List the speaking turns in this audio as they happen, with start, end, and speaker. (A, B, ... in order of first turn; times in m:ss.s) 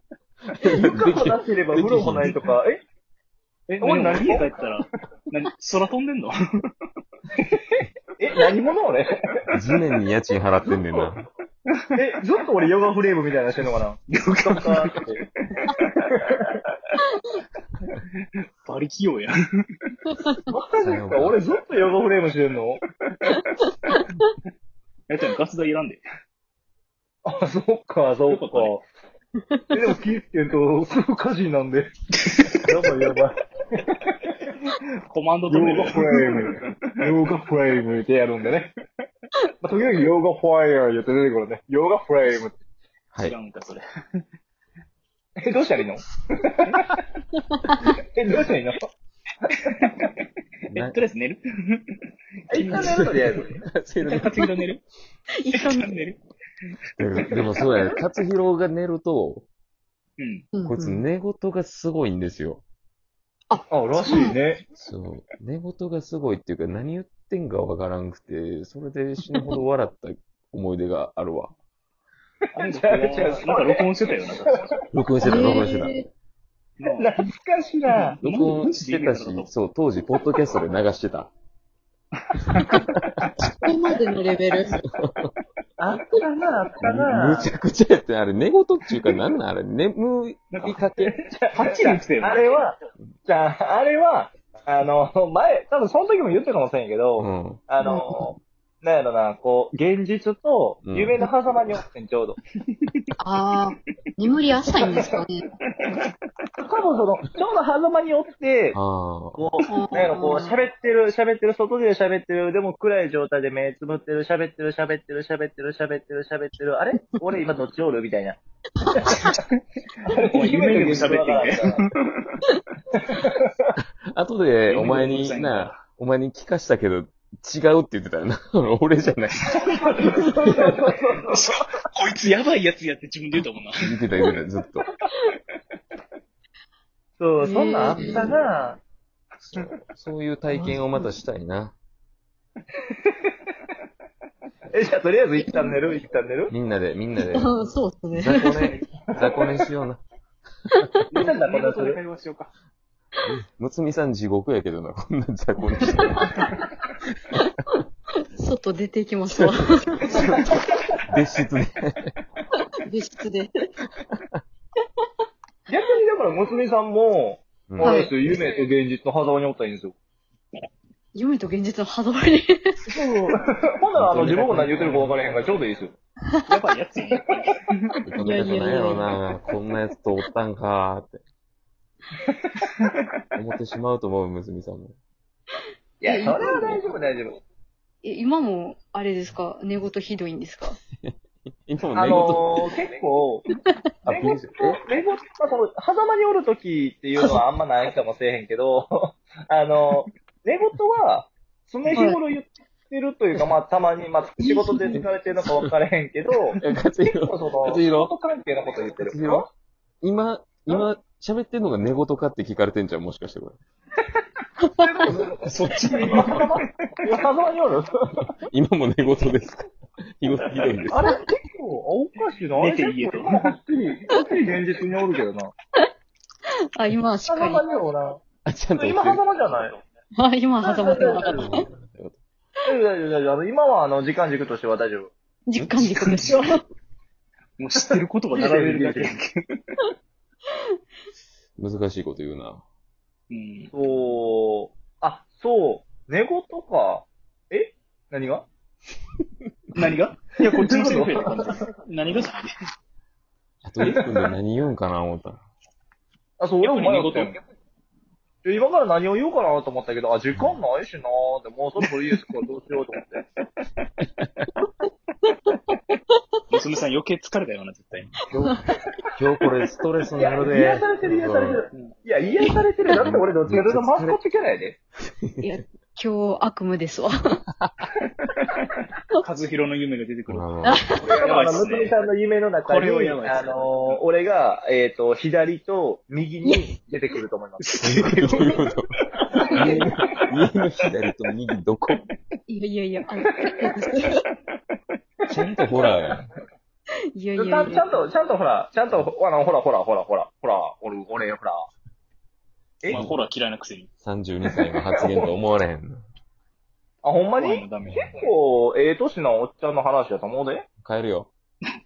0:00.6-0:02.4 A
0:00.6-0:02.8 B
0:03.7-0:06.3 C
0:03.8-0:04.5 B
0:07.4-0:09.2 B
0:09.5-0:11.3 A
0:10.7-0:11.1 B
0:11.9-0:15.2 B
0:14.1-0:16.0 C
0:16.1-0:16.5 B
0:18.6-0:19.3 C
0:20.1-0:20.5 D
0:20.5-0:22.8 B
0:20.8-0:21.4 A
0:23.3-0:24.1 D
0:25.1-0:26.0 C
0:27.2-0:28.8 B
0:28.3-0:28.7 C
0:29.7-0:31.9 B
0:32.2-0:32.6 C
0:32.6-0:33.8 B
0:35.1-0:36.7 C
0:35.5-0:38.7 B
0:39.6-0:42.5 B
0:43.2-0:44.2 C
0:45.4-0:46.6 B
0:47.3-0:47.8 D
0:48.1-0:48.8 B
0:49.6-0:50.1 C
0:50.7-0:51.0 A
0:50.8-0:51.8 C
0:52.5-0:53.5 B
0:52.5-0:53.3 C
0:52.7-0:54.4 A
0:54.1-0:54.8 C
0:55.4-0:55.9 D
0:55.5-0:56.2 C
0:57.0-0:59.5 A
1:00.2-1:00.4 C
1:00.5-1:01.0 D
1:00.6-1:02.6 A
1:03.5-1:04.4 D
1:03.7-1:04.6 B
1:04.8-1:11.5 A
1:12.5-1:13.9 B
1:12.5-1:14.8 C
1:14.9-1:15.9 A
1:15.2-1:16.1 D
1:16.8-1:17.1 C
1:16.8-1:18.2 B
1:17.9-1:19.5 C
1:18.2-1:21.3 A
1:22.3-1:22.6 C
1:23.6-1:24.8 D
1:24.8-1:25.3 A
1:25.8-1:27.5 B
1:26.8-1:31.1 A
1:30.5-1:32.6 C
1:31.3-1:42.4 B
1:37.2-1:37.6 A
1:37.8-1:38.3 D
1:40.8-1:41.1 A
1:43.2-1:45.5 D
1:46.6-1:48.8 B
1:48.7-1:49.4 A
1:49.4-1:58.4 B
1:49.7-1:50.6 D
1:58.8-1:59.3 D
1:59.1-1:59.5 C
2:00.0-2:01.8 B
2:00.3-2:02.0 C
2:03.0-2:03.4 B
2:04.1-2:09.6 A
2:04.7-2:05.8 C
2:09.6-2:11.6 B
2:11.3-2:13.8 C
2:13.8-2:14.8 A
2:17.2-2:18.8 B
2:17.4-2:18.4 D
2:19.4-2:21.8 A
2:20.5-2:21.1 D
2:24.7-2:26.5 B
2:25.4-2:25.8 D
2:26.5-2:27.5 A
2:27.3-2:28.8 D
2:28.1-2:30.0 A
2:31.1-2:32.5 C
2:31.2-2:32.0 B
2:33.2-2:36.5 A
2:35.8-2:36.4 D
2:38.4-2:40.2 D
2:39.3-2:42.1 A
2:40.1-2:40.6 B
2:42.8-2:43.7 D
2:45.7-2:49.9 B
2:47.7-2:48.1 A
2:47.8-2:48.2 D
2:51.1-2:53.0 D
2:52.9-2:55.9 B
2:53.9-2:55.6 C
2:56.4-2:57.9 C
2:58.0-3:01.2 A
2:58.2-2:59.1 D
3:03.4-3:05.0 A
3:06.0-3:07.4 B
3:06.0-3:06.8 D
3:08.0-3:10.8 D
3:11.0-3:12.6 A
3:11.9-3:13.4 B
3:14.0-3:14.8 A
3:14.1-3:26.6 B
3:21.9-3:22.2 D
3:24.4-3:25.0 D
3:26.6-3:28.1 A
3:27.2-3:29.5 B
3:29.0-3:29.5 A
3:30.0-3:33.6 A
3:34.6-3:35.2 D
3:34.8-3:38.2 B
3:35.4-3:36.7 C
3:38.5-3:41.1 A
3:40.9-3:45.5 B
3:42.5-3:43.5 C
3:46.7-3:47.6 D
3:47.2-3:48.2 B
3:48.4-3:49.2 A
3:48.8-3:49.8 B
3:50.2-3:51.7 D
3:50.6-3:51.5 B
3:51.3-3:52.2 A
3:52.6-3:55.1 B
3:55.4-3:56.6 D
3:55.5-3:56.5 A
3:57.6-3:59.3 C
3:57.9-3:59.2 B
4:01.6-4:02.6 A
4:03.3-4:03.7 C
4:03.7-4:08.5 B
4:09.7-4:12.5 C
4:10.4-4:11.5 B
4:13.6-4:15.4 A
4:16.4-4:17.4 B
4:16.6-4:17.4 C
4:18.4-4:23.2 B
4:26.5-4:28.2 C
4:29.1-4:31.6 A
4:30.2-4:34.8 B
4:32.9-4:34.2 A
4:35.2-4:35.5 A
4:35.4-4:37.4 D
4:39.2-4:42.0 C
4:40.3-4:40.9 A
4:40.6-4:41.1 D
4:41.1-4:47.8 B
4:42.6-4:44.0 C
4:47.6-4:48.6 C
4:47.8-4:48.8 A
4:49.1-4:49.4 C
4:49.5-4:49.8 D
4:49.5-4:52.0 A
4:52.5-4:54.2 D
4:55.3-4:56.3 A
4:57.1-4:57.8 D
4:57.3-5:01.7 B
5:02.9-5:03.9 C
5:04.0-5:06.0 A
5:07.0-5:10.7 B
5:07.4-5:08.2 C
5:10.8-5:11.3 A